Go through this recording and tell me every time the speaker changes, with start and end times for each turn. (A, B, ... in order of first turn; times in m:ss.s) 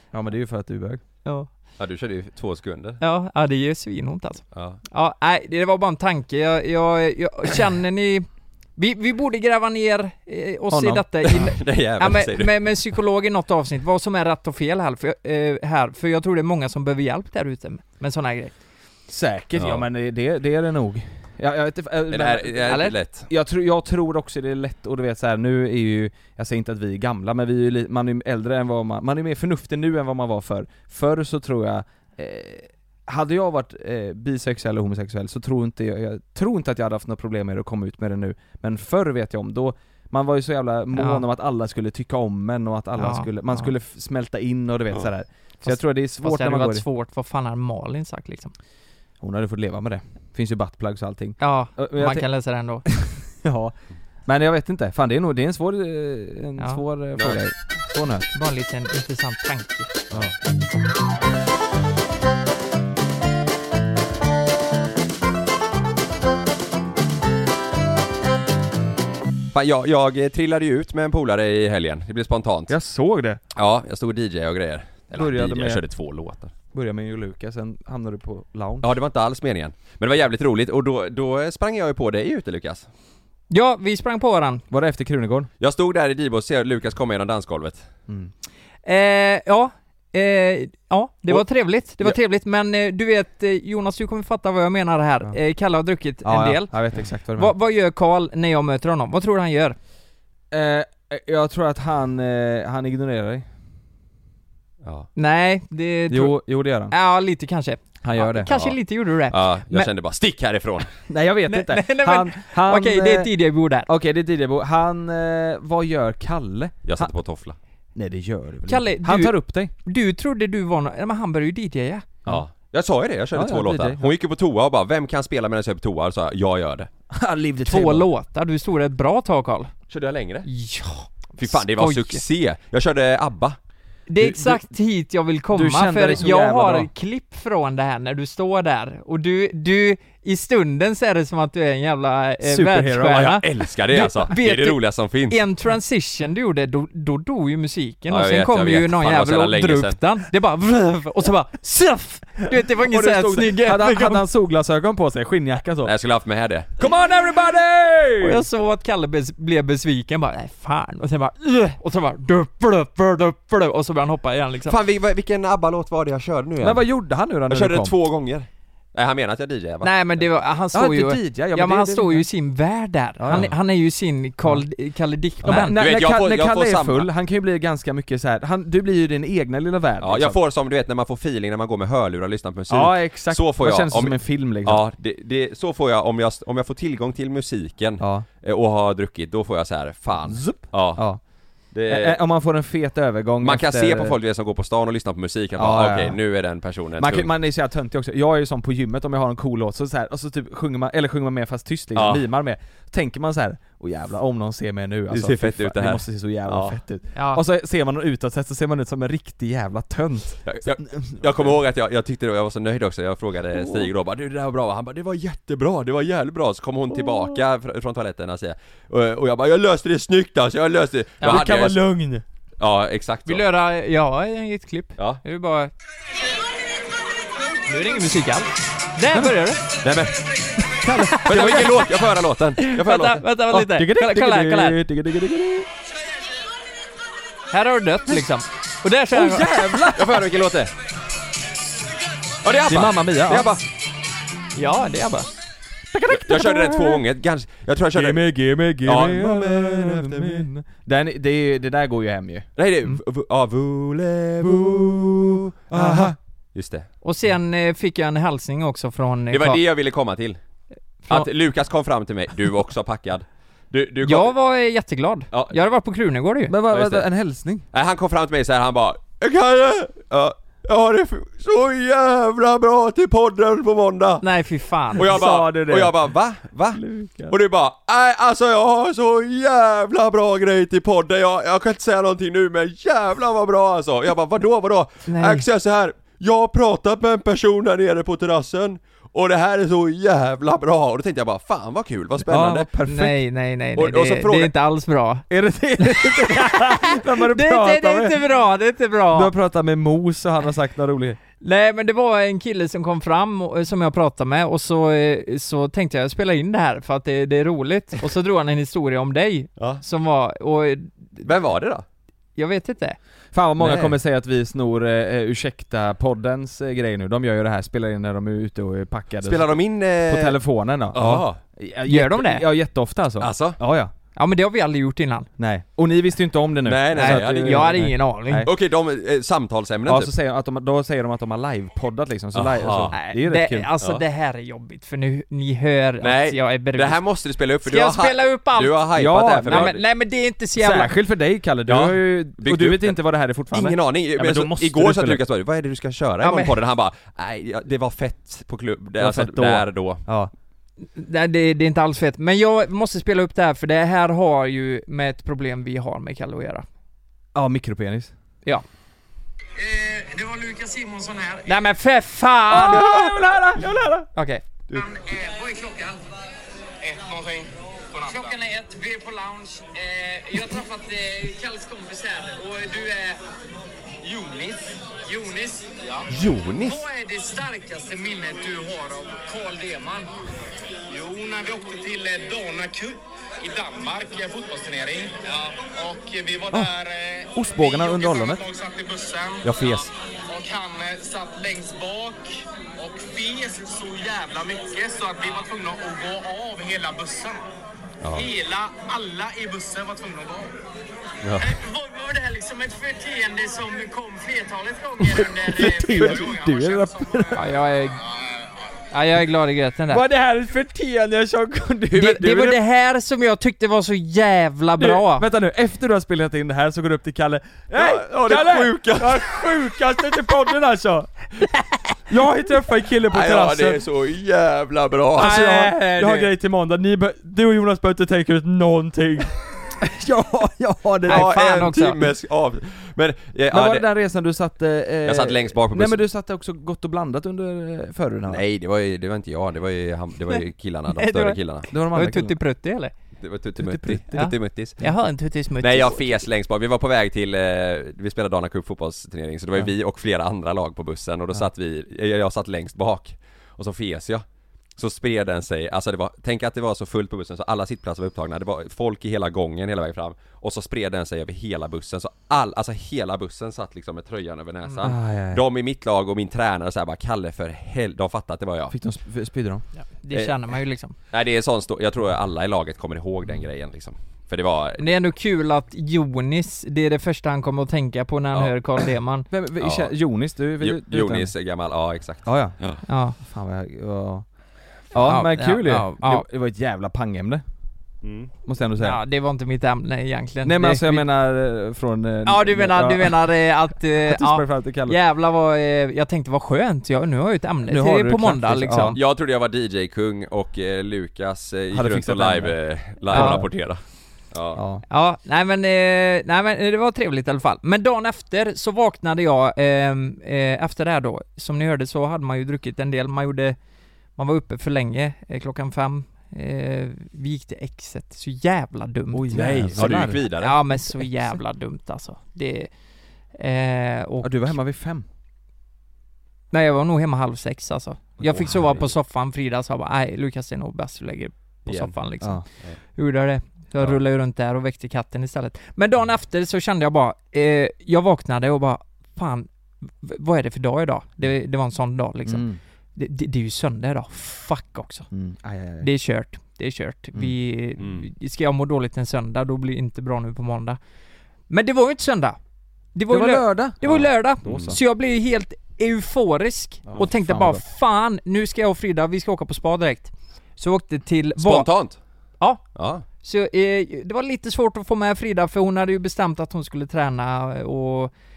0:00.1-0:01.0 A
0:01.2-0:01.5 B
0:01.8-0:03.0 C
0:03.0-0:18.6 B
0:04.5-0:04.8 C
0:10.7-0:11.5 A
0:11.2-0:12.6 C
0:19.1-0:46.8 A
0:19.6-0:19.8 C
0:22.1-0:23.3 C
0:22.7-0:22.9 B
0:40.9-0:41.2 B
0:43.0-0:43.7 B
0:45.6-0:48.5 B
0:49.2-0:52.3 A
0:51.4-0:52.8 B
0:52.9-0:53.7 A
0:54.3-0:58.3 A
0:57.2-0:57.4 C
0:58.3-0:59.9 B
1:09.5-1:12.7 C
1:12.7-1:13.4 A
1:13.6-1:16.5 C
1:15.1-1:15.8 A
1:16.7-1:18.9 A
1:18.8-1:22.9 C
1:23.5-1:24.6 B
1:24.7-1:25.5 A
1:25.6-1:27.9 C
1:28.8-1:36.7 B
1:36.2-1:37.5 A
1:37.4-1:39.8 B
1:40.5-1:43.5 A
1:44.8-1:45.1 C
1:45.2-1:49.9 B
1:46.1-1:46.9 A
1:48.0-1:48.5 A
1:48.5-1:48.8 C
1:49.3-1:51.0 C
1:51.1-1:53.3 A
1:51.5-1:53.9 B
1:53.9-1:57.1 A
1:56.8-1:57.6 C
1:58.0-1:59.7 A
1:58.7-2:02.1 B
2:02.3-2:06.9 C
2:03.3-2:04.1 A
2:07.1-2:08.1 A
2:07.6-2:09.7 B
2:09.9-2:10.5 C
2:10.5-2:12.2 B
2:11.4-2:13.6 C
2:14.1-2:34.2 B
2:14.2-2:14.7 A
2:15.5-2:16.9 A
2:22.4-2:23.4 A
2:23.1-2:25.4 C
2:28.1-2:30.0 C
2:32.8-2:35.9 A
2:35.8-2:36.7 C
2:36.8-2:38.5 A
2:38.2-2:44.8 B
2:44.7-2:46.8 C
2:46.6-2:47.9 A
2:47.5-2:50.2 C
2:49.8-2:55.8 B
2:50.7-2:52.3 A
2:53.2-2:53.5 A
2:55.4-2:57.1 C
2:55.4-3:00.4 A
3:00.0-3:11.0 C
3:02.7-3:04.8 A
3:08.0-3:08.2 A
3:10.3-3:11.2 A
3:11.7-3:12.2 C
3:11.9-3:14.2 A
3:13.4-3:17.3 C
3:15.6-3:16.2 A
3:17.0-3:31.2 A
3:22.0-3:22.2 C
3:25.1-3:26.8 C
3:27.2-3:27.4 B
3:30.5-3:41.8 C
3:33.6-3:33.9 A
3:36.9-3:37.4 A
3:41.2-3:42.2 A
3:42.6-3:43.5 C
3:43.3-3:45.7 B
3:47.7-3:49.6 B
3:49.8-3:50.2 C
3:50.6-3:51.7 A
3:51.0-3:51.9 B
3:51.2-3:53.2 C
3:52.6-3:54.8 B
3:53.5-3:55.7 A
3:57.5-3:59.9 B
3:59.1-4:00.2 A
3:59.9-4:00.7 C
4:02.4-4:03.6 C
4:02.7-4:03.5 A
4:04.6-4:05.3 B
4:05.9-4:07.0 A
4:06.1-4:08.2 C
4:07.9-4:12.5 A
4:08.8-4:10.5 C
4:12.6-4:16.9 C
4:14.4-4:14.8 A
4:15.7-4:16.2 A
4:17.0-4:19.6 B
4:19.3-4:20.4 C
4:21.1-4:24.3 C
4:24.0-4:26.6 B
4:26.5-4:27.7 A
4:26.7-4:27.1 C
4:27.7-4:34.2 C
4:34.2-4:35.2 B
4:34.9-4:52.7 C
4:35.0-4:36.0 A
4:36.7-4:37.4 A
4:45.1-4:45.5 B
4:52.2-4:53.2 A
4:52.9-4:55.3 B
4:53.8-4:54.5 C
4:55.3-4:58.2 A
4:55.8-4:59.3 B
4:59.1-5:01.2 A
5:01.4-5:11.3 B
5:11.2-5:11.8 C
5:12.4-5:13.0 B
5:13.3-5:23.9 A
5:13.6-5:14.0 C
5:19.2-5:20.4 C
5:20.9-5:21.4 C
5:21.9-5:22.5 B
5:23.2-5:23.6 C
5:24.2-5:25.3 B
5:25.4-5:28.5 A
5:26.6-5:30.1 C
5:27.0-5:28.5 B
5:29.9-5:33.7 A
5:32.3-5:32.9 C
5:32.9-5:37.0 B
5:36.0-5:39.8 C
5:37.6-5:38.8 B
5:39.0-5:39.8 A
5:39.4-5:40.9 B
5:40.6-5:45.2 A
5:41.7-5:43.0 C
5:43.5-5:50.0 C
5:46.2-5:46.5 B
5:49.0-5:50.3 A
5:51.0-5:56.7 B
5:57.3-5:58.1 A
5:59.6-6:01.5 D
6:01.5-6:02.9 B
6:02.5-6:04.1 A
6:02.5-6:03.7 C
6:04.2-6:04.4 B
6:04.7-6:06.1 D
6:06.8-6:13.2 D
6:14.0-6:20.1 D
6:16.1-6:16.8 C
6:20.9-6:37.5 D
6:27.4-6:28.4 A
6:29.4-6:29.9 C
6:38.0-6:38.3 C
6:38.1-6:40.6 D
6:41.2-6:41.6 C
6:41.4-6:48.6 D
6:45.0-6:47.5 A
6:45.9-6:46.2 C
6:47.3-6:48.0 B
6:48.9-6:50.0 B
6:49.9-6:52.4 A
6:51.9-6:52.6 C
6:51.9-6:55.3 B
6:54.8-7:01.3 A
6:57.8-6:59.5 C
7:02.1-7:03.8 A
7:03.0-7:05.7 C
7:05.2-7:11.3 A
7:05.2-7:06.3 B
7:11.1-7:12.0 B
7:11.1-7:13.9 C
7:13.5-7:18.4 A
7:15.0-7:16.0 C
7:18.3-7:21.7 C
7:21.0-7:22.9 B
7:21.7-7:22.3 A
7:23.2-7:24.8 C
7:23.6-7:24.2 A
7:24.1-7:26.2 B
7:25.6-7:34.2 C
7:34.8-7:48.7 C
7:44.8-7:45.4 A
7:48.7-7:49.6 A
7:50.0-7:51.0 B
7:51.1-7:54.9 C
7:54.8-7:59.3 B
7:59.3-8:01.3 A
7:59.6-7:59.9 C
8:00.6-8:02.8 C
8:02.2-8:02.6 A
8:02.9-8:03.2 B
8:03.2-8:04.3 A
8:04.9-8:06.2 B
8:04.9-8:07.4 A
8:08.0-8:08.3 C
8:08.5-8:09.0 A
8:08.8-8:11.1 B
8:10.4-8:13.3 A
8:12.3-8:19.0 B
8:14.0-8:15.0 A
8:17.6-8:19.0 A
8:18.9-8:23.8 C
8:21.7-8:22.6 A
8:23.1-8:23.5 A
8:23.1-8:23.4 B
8:24.3-8:24.6 C
8:24.6-8:24.8 A
8:24.9-8:33.6 B
8:34.2-8:42.7 B
8:39.1-8:40.2 A
8:39.3-8:40.6 C
8:43.3-8:44.5 B
8:44.2-8:45.0 A
8:46.5-8:59.5 B
8:48.2-8:48.8 C
8:51.7-8:52.0 C
9:00.0-9:05.1 B
9:02.3-9:02.6 A
9:05.1-9:05.9 A
9:05.8-9:10.8 B
9:07.8-9:08.1 C
9:11.5-9:12.4 B
9:13.0-9:21.7 B
9:13.1-9:14.8 A
9:14.5-9:14.8 C
9:16.9-9:17.6 A
9:21.4-9:22.0 C
9:22.8-9:23.0 C
9:23.2-9:28.1 B